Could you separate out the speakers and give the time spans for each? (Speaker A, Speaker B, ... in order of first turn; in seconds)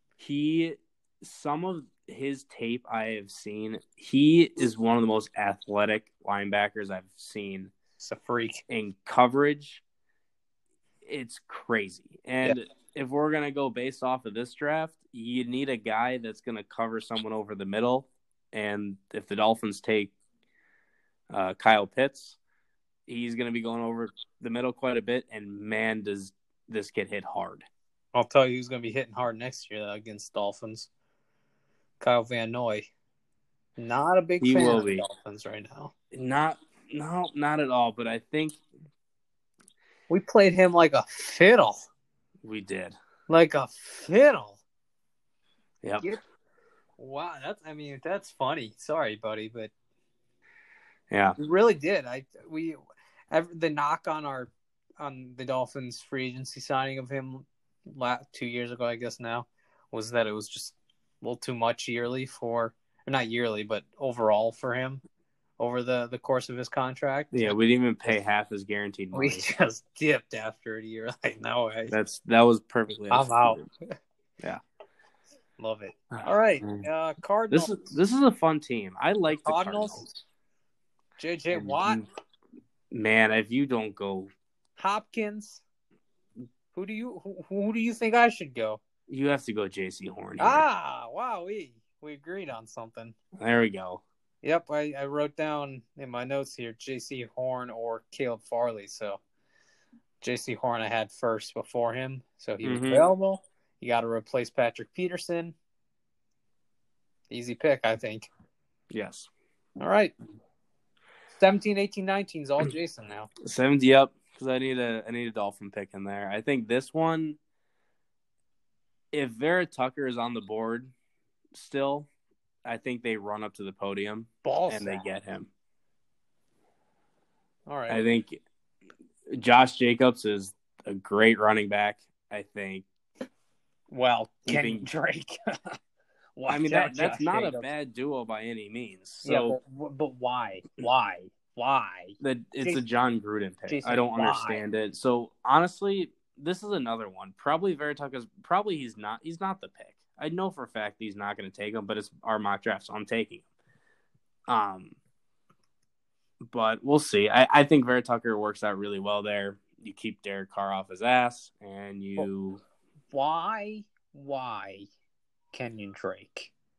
Speaker A: 0.2-7.7, 8.7-9.8, 11.0-20.1, 21.3-22.4, 23.1-27.7, 34.4-35.0, 36.1-38.6, 42.4-43.0, 45.8-46.1, 51.1-51.4, 67.3-69.4, 71.9-73.6, 76.1-76.8, 77.5-80.1, 81.5-82.0, 82.9-84.3, 89.1-90.6, 93.4-94.0, 102.6-103.1, 108.9-109.3, 113.4-117.4, 119.1-120.9, 121.5-122.1, 122.6-125.5, 127.9-128.4, 129.3-132.9, 134.5-134.9, 136.5-139.6, 142.2-153.4, 154.5-155.0, 156.4-162.6
Speaker B: 8.0-8.6, 28.1-30.9, 32.0-32.9, 33.8-35.9, 40.1-41.9, 43.3-44.6, 47.0-49.7, 51.4-52.8, 53.3-65.0, 65.6-67.5, 69.1-72.0, 73.1-73.9, 75.6-77.9, 79.4-80.2, 81.2-82.0, 84.8-85.6, 86.7-88.8, 90.4-93.2, 94.4-99.2, 100.2-105.5, 107.3-108.3, 109.8-110.1, 111.3-113.3, 124.4-125.0, 127.7-128.1, 133.9-135.8, 136.4-137.7, 139.2-142.8, 143.7-144.6, 163.1-164.9, 165.5-166.5